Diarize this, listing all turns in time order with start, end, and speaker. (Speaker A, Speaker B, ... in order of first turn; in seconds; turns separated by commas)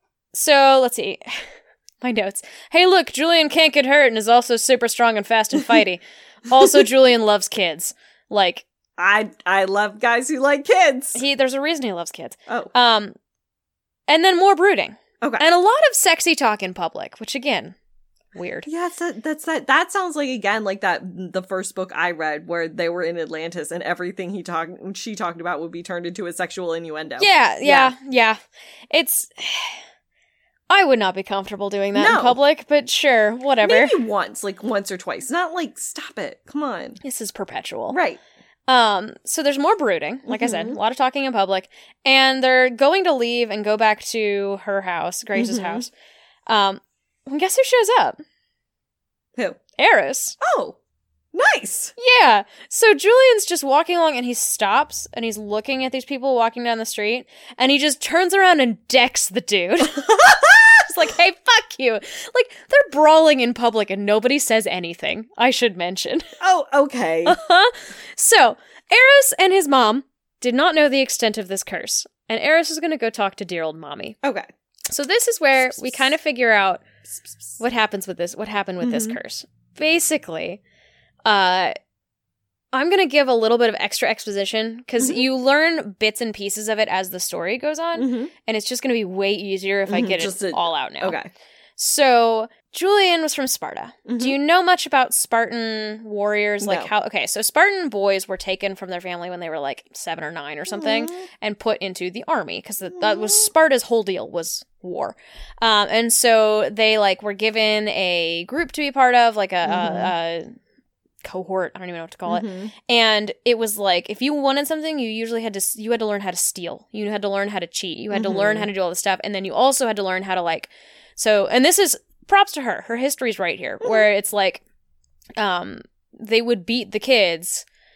Speaker A: 0.3-8.7, Speaker B: 6.6-6.8, Speaker B: 9.0-11.2, Speaker A: 11.1-13.1, Speaker A: 14.1-17.8, Speaker A: 18.3-18.7, Speaker B: 18.6-27.9, Speaker A: 27.2-28.4, Speaker A: 28.9-29.8, Speaker A: 30.7-34.0, Speaker B: 31.9-32.4, Speaker B: 33.6-37.0, Speaker A: 37.0-38.0, Speaker B: 37.9-38.2, Speaker A: 38.7-45.9, Speaker B: 40.3-40.8, Speaker B: 45.3-45.9, Speaker A: 46.5-48.2, Speaker A: 49.8-50.4, Speaker B: 50.4-50.8, Speaker B: 51.3-51.9, Speaker A: 52.0-60.2, Speaker B: 59.9-60.8, Speaker A: 60.8-66.3, Speaker B: 66.4-67.4, Speaker A: 67.2-74.2, Speaker A: 74.9-76.8, Speaker A: 77.6-80.6, Speaker B: 78.8-79.2, Speaker A: 81.2-81.7, Speaker A: 82.7-91.2, Speaker B: 88.0-88.3, Speaker B: 89.9-91.3, Speaker A: 91.8-110.5, Speaker B: 94.0-94.4, Speaker B: 96.6-96.9, Speaker B: 100.7-101.2, Speaker B: 103.0-103.5, Speaker B: 109.6-110.1, Speaker A: 111.2-124.6, Speaker B: 112.3-112.7, Speaker B: 118.1-118.7, Speaker A: 125.4-127.6